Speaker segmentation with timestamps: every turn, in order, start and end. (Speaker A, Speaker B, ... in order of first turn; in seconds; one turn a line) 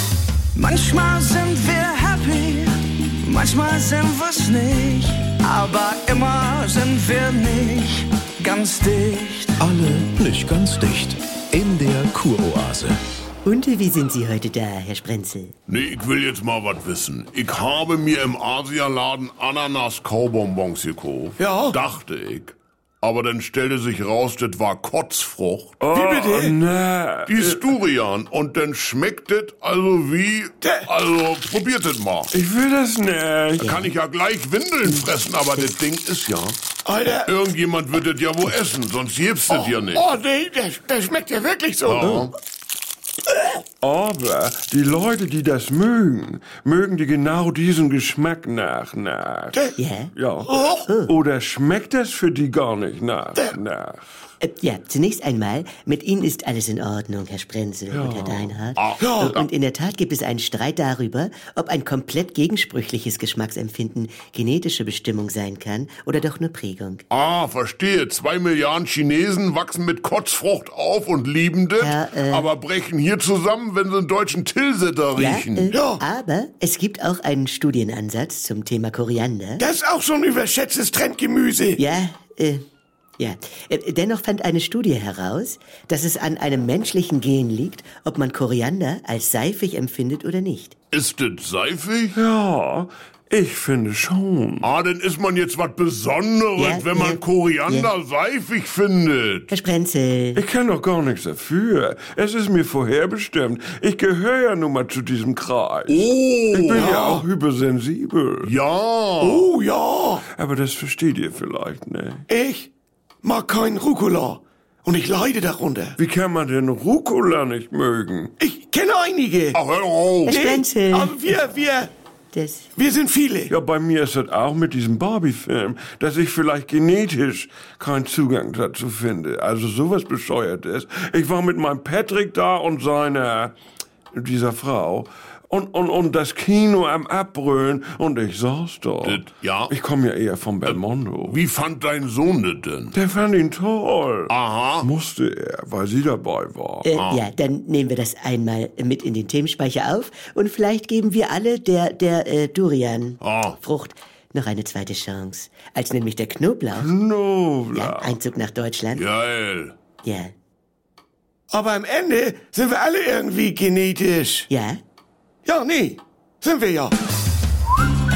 Speaker A: 0.5-9.6
Speaker B: 9.6-13.0
Speaker C: 13.4-15.5
Speaker D: 15.7-25.8
Speaker E: 21.4-21.8
Speaker F: 25.8-27.7
Speaker E: 25.9-26.6
Speaker D: 27.2-32.3
Speaker F: 32.3-33.8
Speaker D: 33.6-36.6
Speaker C: 34.8-35.7
Speaker E: 36.8-37.4
Speaker D: 37.2-40.1
Speaker E: 39.5-42.3
Speaker D: 41.8-42.3
Speaker F: 43.8-49.6
Speaker C: 49.8-50.1
Speaker F: 50.1-54.0
Speaker E: 50.5-50.9
Speaker C: 50.9-51.1
Speaker C: 54.4-67.0
Speaker F: 57.9-58.6
Speaker D: 58.8-59.5
Speaker E: 59.0-59.3
Speaker D: 67.1-75.8
Speaker C: 71.8-72.5
Speaker C: 75.2-79.6
Speaker E: 75.7-76.0
Speaker E: 79.6-81.8
Speaker C: 81.8-82.6
Speaker C: 83.2-90.7
Speaker D: 90.9-92.2
Speaker F: 92.1-94.7
Speaker D: 94.6-99.5
Speaker C: 96.6-97.9
Speaker C: 99.5-100.4
Speaker F: 100.3-108.5
Speaker D: 105.9-106.9
Speaker E: 106.8-107.2
Speaker D: 108.4-109.5
Speaker E: 109.2-110.2
Speaker F: 110.3-112.2
Speaker E: 112.3-112.7
Speaker E: 113.2-116.0
Speaker F: 116.0-118.3
Speaker E: 118.4-119.6
Speaker D: 119.5-120.4
Speaker C: 120.2-121.2
Speaker E: 120.3-121.9
Speaker C: 122.3-122.7
Speaker E: 122.8-123.5
Speaker F: 123.5-133.5
Speaker F: 134.1-141.4
Speaker D: 139.0-139.7
Speaker D: 140.7-142.9
Speaker F: 142.9-146.9
Speaker D: 144.3-144.9
Speaker C: 146.8-156.9
Speaker D: 146.9-147.2
Speaker D: 153.2-153.6
Speaker F: 156.7-158.2
Speaker C: 157.7-159.0
Speaker D: 158.9-159.7
Speaker C: 160.0-160.3
Speaker E: 161.5-164.5
Speaker C: 164.5-164.8
Speaker E: 165.4-166.9